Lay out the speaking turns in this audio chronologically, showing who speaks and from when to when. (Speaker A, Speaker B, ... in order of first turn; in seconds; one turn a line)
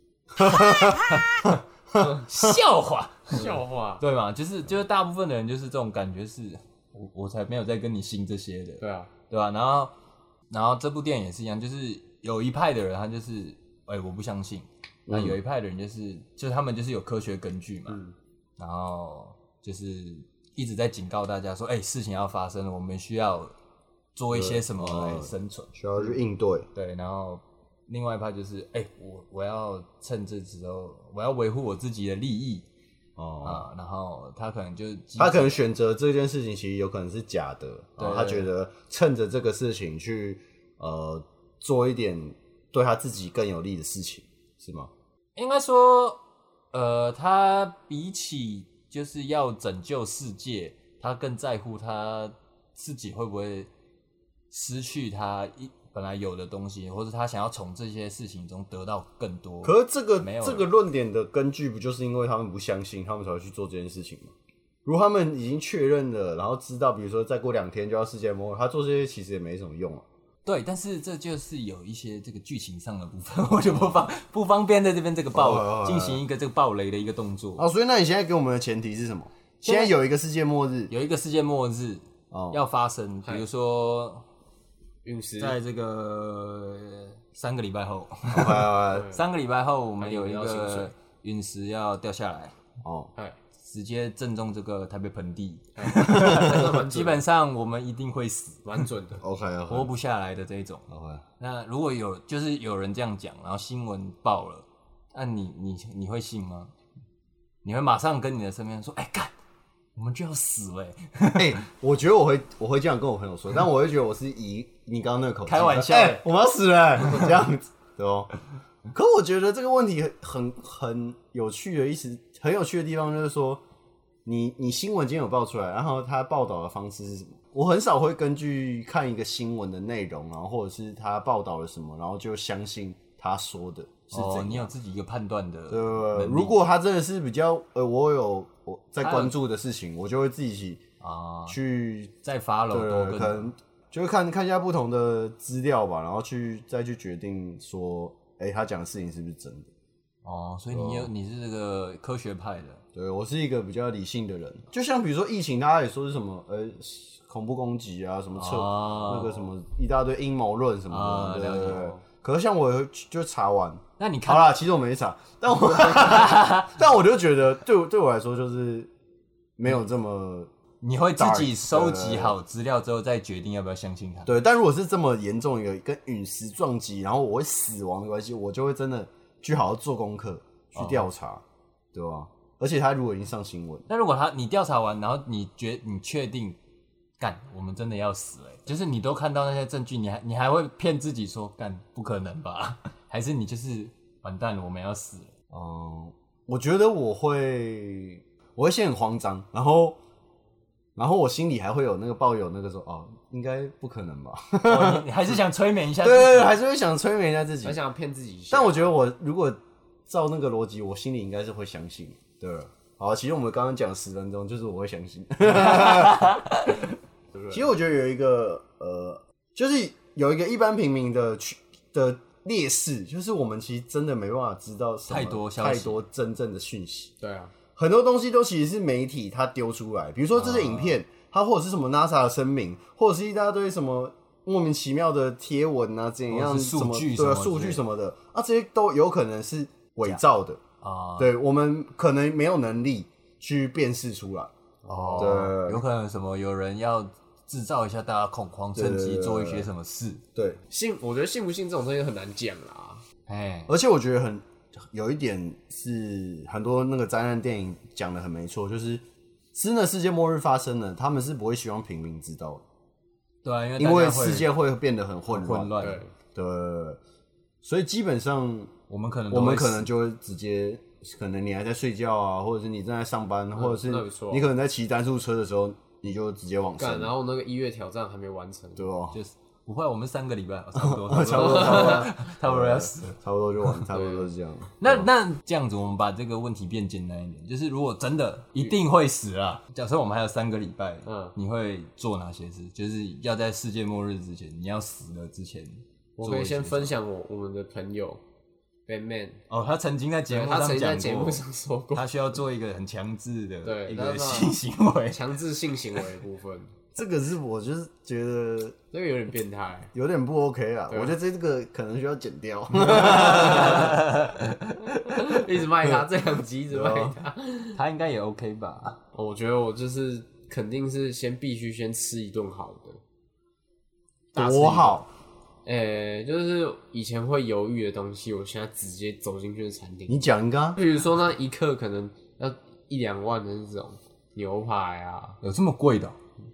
Speaker A: 0.3-9.9
Speaker B: 0.4-1.0
Speaker C: 3.3-4.0
Speaker C: 8.8-9.1
Speaker A: 10.5-18.0
Speaker B: 15.1-15.4
Speaker C: 17.9-18.1
Speaker A: 18.6-23.5
Speaker A: 24.1-25.7
Speaker B: 24.3-26.7
Speaker A: 26.7-32.6
Speaker B: 33.2-33.6
Speaker A: 33.4-35.6
Speaker B: 35.2-44.9
Speaker A: 38.0-38.5
Speaker A: 45.4-46.2
Speaker A: 46.7-53.7
Speaker A: 54.5-60.6
Speaker B: 59.6-64.3
Speaker B: 64.8-70.0
Speaker A: 70.4-77.6
Speaker B: 75.3-76.2
Speaker B: 77.6-80.9
Speaker A: 79.6-80.0
Speaker A: 80.9-84.2
Speaker B: 82.3-82.6
Speaker C: 85.0-85.6
Speaker A: 85.4-92.5
Speaker B: 88.3-89.1
Speaker C: 88.9-89.2
Speaker C: 90.0-90.9
Speaker B: 92.8-93.1
Speaker A: 93.6-98.8
Speaker C: 95.8-97.2
Speaker B: 96.0-96.6
Speaker C: 98.6-99.2
Speaker B: 99.2-99.9
Speaker A: 99.7-100.8
Speaker B: 100.9-101.2
Speaker A: 101.4-106.7
Speaker A: 107.6-109.3
Speaker A: 110.0-111.6
Speaker B: 111.3-118.3
Speaker A: 115.5-116.3
Speaker B: 118.9-123.6
Speaker B: 124.2-134.7
Speaker A: 134.1-136.6
Speaker B: 135.7-140.8
Speaker A: 139.0-139.3
Speaker A: 141.0-141.6
Speaker B: 141.5-142.1
Speaker A: 142.2-143.5
Speaker B: 142.7-149.7
Speaker A: 150.2-152.8
Speaker B: 150.7-151.1
Speaker B: 152.9-168.9
Speaker A: 158.3-159.4
Speaker A: 160.9-161.9
Speaker A: 164.0-164.6
Speaker A: 165.8-166.7
Speaker B: 169.6-170.5
Speaker A: 170.8-174.3
Speaker B: 171.2-172.3
Speaker B: 174.2-181.4
Speaker A: 180.8-181.0
Speaker B: 181.9-183.8
Speaker A: 183.9-186.6
Speaker A: 187.2-195.3
Speaker B: 195.5-200.0
Speaker B: 200.9-205.1
Speaker A: 204.6-206.6
Speaker B: 206.0-207.8
Speaker C: 207.6-208.9
Speaker B: 208.5-216.4
Speaker A: 215.5-216.8
Speaker C: 217.3-217.6
Speaker B: 217.5-227.1
Speaker A: 225.1-226.0
Speaker C: 227.2-227.5
Speaker B: 227.8-240.6
Speaker A: 230.3-231.0
Speaker A: 236.3-237.8
Speaker A: 240.8-241.3
Speaker B: 241.2-244.5
Speaker C: 244.8-245.5
Speaker A: 244.9-250.2
Speaker B: 245.2-245.8
Speaker B: 248.7-249.7
Speaker C: 250.7-253.0
Speaker A: 253.3-253.7
Speaker B: 253.7-259.0
Speaker B: 259.5-262.6
Speaker A: 263.4-264.5
Speaker B: 263.8-267.0
Speaker A: 265.3-266.0
Speaker C: 265.8-266.1
Speaker B: 267.6-268.7
Speaker A: 268.9-269.9
Speaker B: 269.3-277.1
Speaker C: 273.5-274.5
Speaker C: 276.8-278.9
Speaker B: 278.8-279.1
Speaker A: 279.1-283.1
Speaker B: 280.7-285.1
Speaker C: 281.4-282.0
Speaker C: 283.9-284.3
Speaker A: 284.8-296.9
Speaker C: 291.1-291.3
Speaker C: 296.2-298.2
Speaker C: 298.9-299.4
Speaker A: 299.5-301.4
Speaker C: 300.3-302.1
Speaker A: 301.9-305.2
Speaker C: 303.6-304.6
Speaker C: 305.1-306.7
Speaker B: 306.9-308.8
Speaker C: 308.9-309.9
Speaker B: 309.9-314.0
Speaker C: 310.9-311.1
Speaker A: 312.8-315.2
Speaker C: 313.3-313.9
Speaker C: 315.1-317.8
Speaker B: 316.7-317.1
Speaker A: 317.7-319.0
Speaker C: 319.1-323.0
Speaker C: 324.3-325.0
Speaker B: 324.3-325.1
Speaker C: 325.6-335.4
Speaker B: 330.1-330.8
Speaker A: 335.4-336.2